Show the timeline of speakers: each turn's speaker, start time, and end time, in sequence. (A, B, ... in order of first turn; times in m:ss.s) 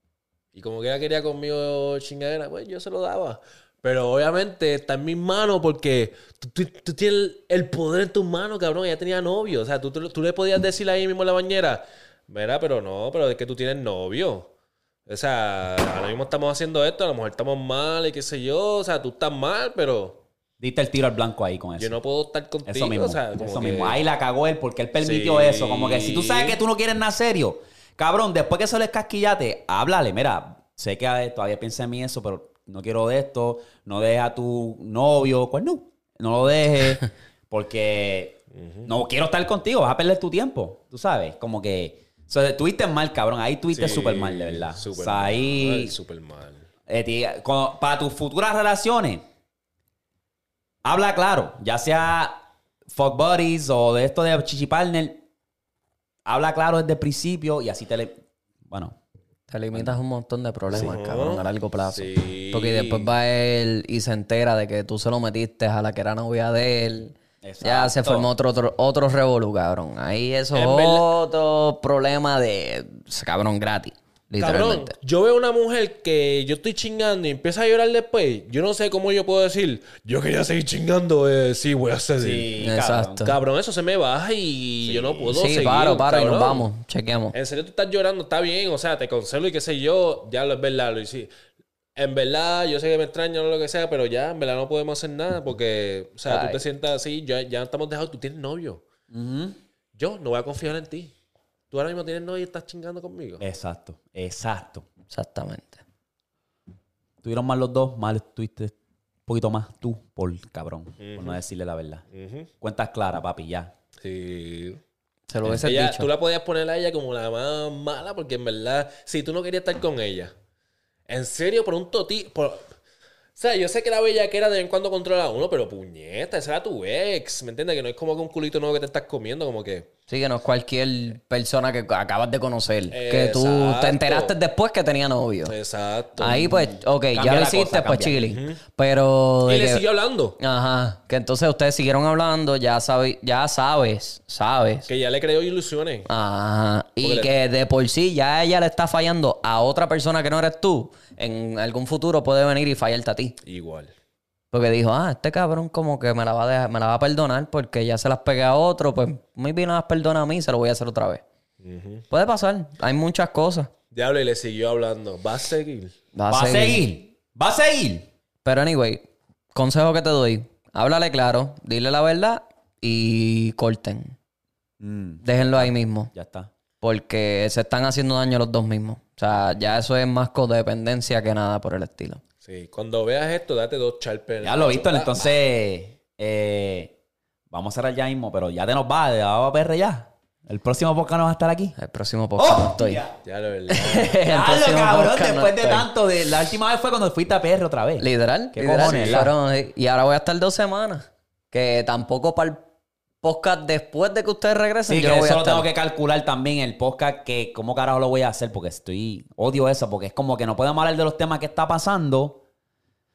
0:00.5-0:14.5 A
0:15.1-0:20.2 A
0:20.6-0:22.0 B
0:21.8-0:24.0 A
0:22.7-0:46.0 B
0:25.0-0:26.6 A
0:38.5-0:38.9 A
0:43.7-0:46.7 A
0:46.9-0:49.2 B
0:50.8-0:55.2 B
0:56.3-0:59.0 B
0:59.5-1:15.0 C
0:59.7-1:00.0 B
1:00.7-1:03.1 A
1:07.4-1:08.3 B
1:10.5-1:11.1 A
1:14.4-1:22.5 A
1:22.2-1:23.4 B
1:22.6-1:23.4 C
1:23.2-1:26.7 A
1:24.8-1:25.3 B
1:25.3-1:27.4 C
1:27.3-1:31.3 A
1:32.0-1:38.8 A
1:36.3-1:36.6 C
1:39.1-1:39.6 B
1:40.0-1:41.1 A
1:41.7-1:43.4 A
1:43.4-1:44.9 B
1:45.1-1:45.8 C
1:47.2-1:48.8 B
1:49.3-1:52.0 B
1:51.0-1:51.4 A
1:52.1-1:52.5 A
1:52.6-1:53.7 B
1:54.0-1:54.8 A
1:55.3-1:56.1 C
1:55.5-2:00.3 A
2:01.1-2:02.7 A
2:03.4-2:09.9 A
2:10.1-2:15.5 C
2:12.9-2:14.4 A
2:15.5-2:16.5 A
2:16.2-2:19.8 C
2:16.4-2:18.2 B
2:18.2-2:18.6 A
2:19.5-2:20.4 A
2:20.4-2:24.9 C
2:24.9-2:26.1 A
2:26.1-2:33.4 C
2:27.0-2:27.3 A
2:33.4-2:33.9 A
2:34.5-2:41.2 C
2:41.6-2:42.1 A
2:42.1-2:43.7 C
2:43.9-2:46.0 A
2:46.2-2:46.8 C
2:46.3-2:48.1 B
2:48.4-2:49.0 C
2:49.6-2:54.2 C
2:54.8-2:56.5 B
2:55.2-2:56.1 C
2:56.8-3:02.2 C
3:02.4-3:05.3 A
3:04.4-3:07.0 B
3:07.5-3:11.8 B
3:11.8-3:13.0 C
3:12.4-3:13.2 B
3:13.2-3:14.2 A
3:13.7-3:15.9 C
3:14.2-3:19.3 B
3:18.0-3:22.7 C
3:18.8-3:19.3 A
3:23.2-3:25.7 C
3:24.9-3:32.4 B